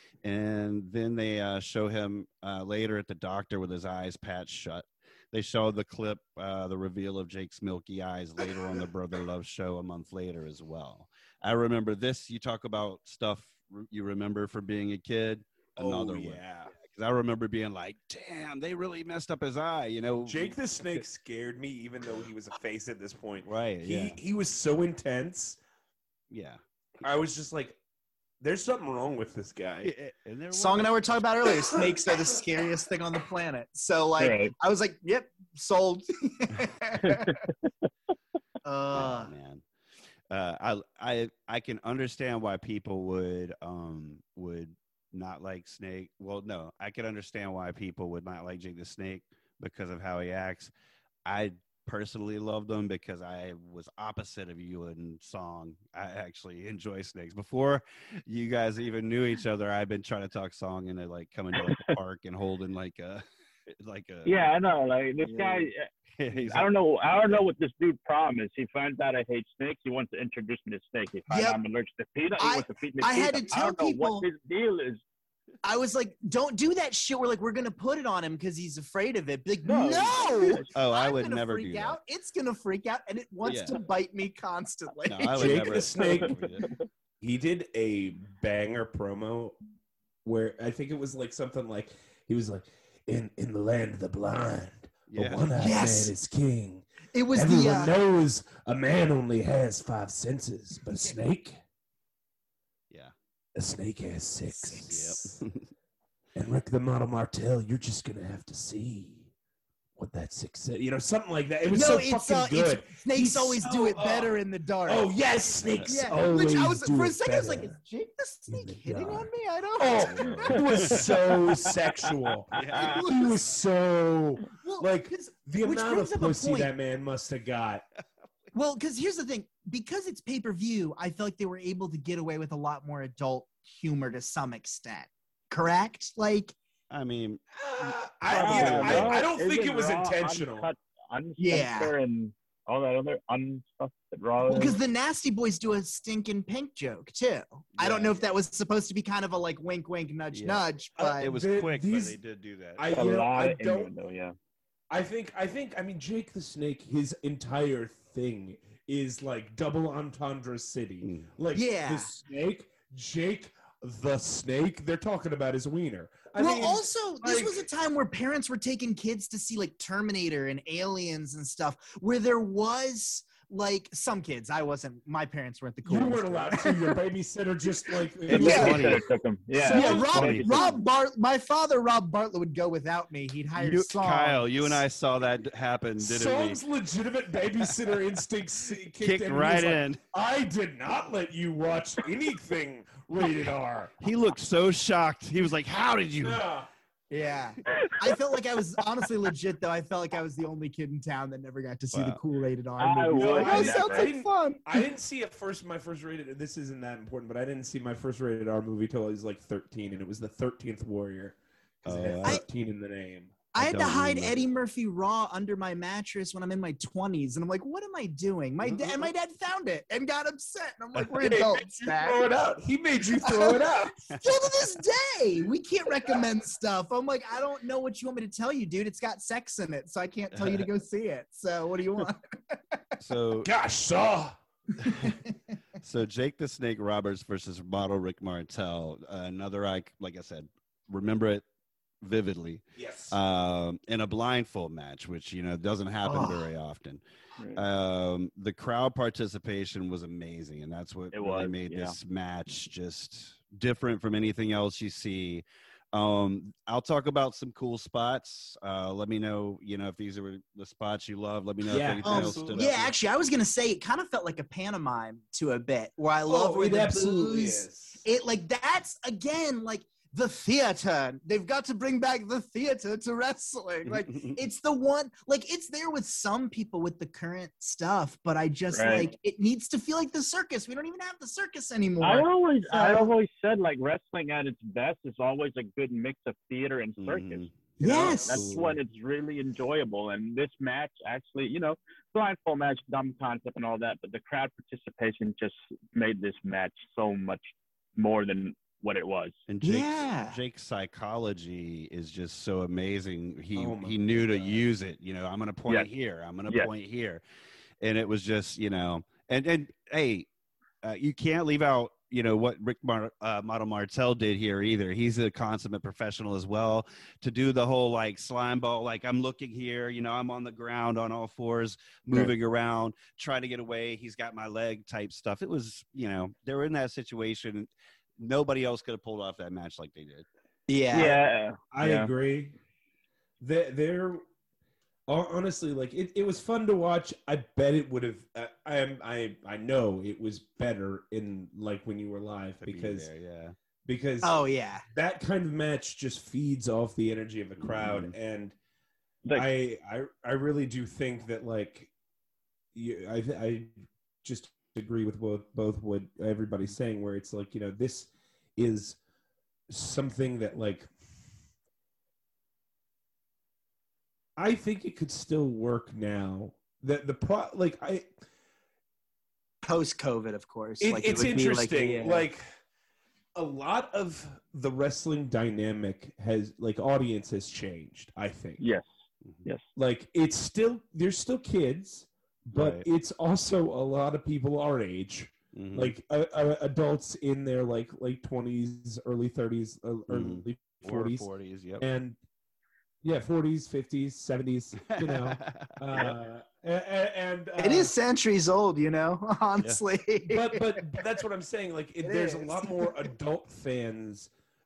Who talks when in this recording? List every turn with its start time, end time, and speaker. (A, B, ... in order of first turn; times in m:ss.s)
0:00.2-0:20.6 A
0:15.8-0:16.7 B
0:20.2-0:25.6 B
0:23.4-0:24.2 A
0:26.3-0:26.6 A
0:27.0-0:27.8 B
0:28.4-0:29.9 B
0:29.8-0:31.3 A
0:30.5-0:37.4 C
0:34.2-0:34.5 D
0:37.0-0:37.9 D
0:38.6-0:39.3 C
0:38.9-0:39.6 A
0:40.3-0:50.7 A
0:51.2-1:04.5 A
1:01.6-1:01.9 D
1:04.2-1:15.0 D
1:06.2-1:07.4 A
1:11.3-1:11.6 C
1:12.4-1:14.3 C
1:15.6-1:25.8 C
1:19.6-1:20.7 D
1:20.7-1:22.0 A
1:23.4-1:23.8 A
1:25.0-1:26.7 A
1:25.4-1:26.4 B
1:26.0-1:26.8 D
1:27.2-1:29.6 B
1:30.2-1:41.6 B
1:35.1-1:35.5 A
1:35.5-1:36.1 C
1:37.1-1:38.0 C
1:43.6-1:45.4 B
1:44.9-1:45.6 A
1:46.4-1:49.3 B
1:50.0-1:57.8 B
1:51.7-1:55.1 C
1:55.7-1:56.1 A
1:55.8-2:01.0 C
1:58.5-2:07.8 B
2:00.0-2:01.1 A
2:00.5-2:01.1 D
2:02.5-2:03.0 A
2:02.8-2:03.5 C
2:04.6-2:06.7 C
2:08.5-2:16.5 C
2:16.9-2:19.2 A
2:17.5-2:20.7 B
2:18.3-2:24.8 D
2:21.4-2:21.9 C
2:24.4-2:31.3 C
2:27.8-2:28.2 A
2:30.3-2:30.6 A
2:31.0-2:32.2 B
2:31.2-2:32.9 A
2:32.8-2:33.9 B
2:32.9-2:34.3 D
2:34.9-2:47.7 B
2:41.0-2:41.3 A
2:41.5-2:42.1 C
2:46.4-2:57.0 C
2:55.8-2:59.0 B
2:58.3-2:59.0 A
2:58.3-2:58.9 C
2:58.3-3:00.7 D
2:59.6-3:00.7 B
2:59.6-3:04.8 C
3:00.1-3:00.7 A
3:03.6-3:06.6 A
3:06.0-3:13.9 B
3:09.0-3:10.0 A
3:14.0-3:16.4 A
3:16.2-3:16.7 B
3:17.1-3:24.8 C
3:21.9-3:22.2 A
3:22.8-3:24.1 D
3:23.1-3:33.4 B
3:31.8-3:32.4 A
3:33.5-3:42.2 C
3:33.6-3:34.4 A
3:38.7-3:39.1 B
3:41.1-3:44.1 B
3:43.2-3:52.8 C
3:50.3-3:50.7 A
3:53.0-3:53.5 A
3:53.4-3:54.4 B
3:54.8-3:55.2 C
3:55.8-4:01.4 A
4:02.0-4:07.0 A
4:02.8-4:03.2 B
4:06.0-4:06.5 C
4:07.5-4:22.9 A
4:11.1-4:12.0 D
4:21.6-4:22.9 B
4:22.0-4:43.1 C
4:26.2-4:28.0 B
4:33.8-4:34.4 A
4:38.7-4:39.1 D
4:42.0-4:59.4 D
4:47.0-4:48.8 A
4:47.8-4:48.6 C
4:47.9-4:48.4 B
4:59.5-5:07.2 A
4:59.6-5:00.4 C
5:03.5-5:04.6 B
5:07.8-5:10.3 A
5:10.8-5:30.2 A
5:30.7-5:31.2 C
5:30.9-5:32.1 D
5:31.7-5:32.6 B
5:33.4-5:34.2 B
5:35.1-5:43.1 B
5:42.6-5:43.6 A
5:43.8-5:48.5 B
5:44.2-5:44.8 C
5:47.6-5:48.1 A
5:49.3-5:51.9 B
5:52.7-5:53.7 B
5:54.2-5:59.0 B
5:59.7-6:00.9 B
6:04.4-6:08.1 B
6:09.6-6:12.2 C
6:10.8-6:12.4 B
6:13.3-6:18.6 B
6:18.6-6:18.8 D
6:19.7-6:31.3 B
6:22.5-6:22.8 A
6:25.5-6:25.9 A
6:30.1-6:31.8 A
6:31.8-6:32.2 B
6:33.0-6:37.9 B
6:34.9-6:36.2 A
6:37.6-6:41.0 C
6:40.2-6:44.3 B
6:42.0-6:43.0 C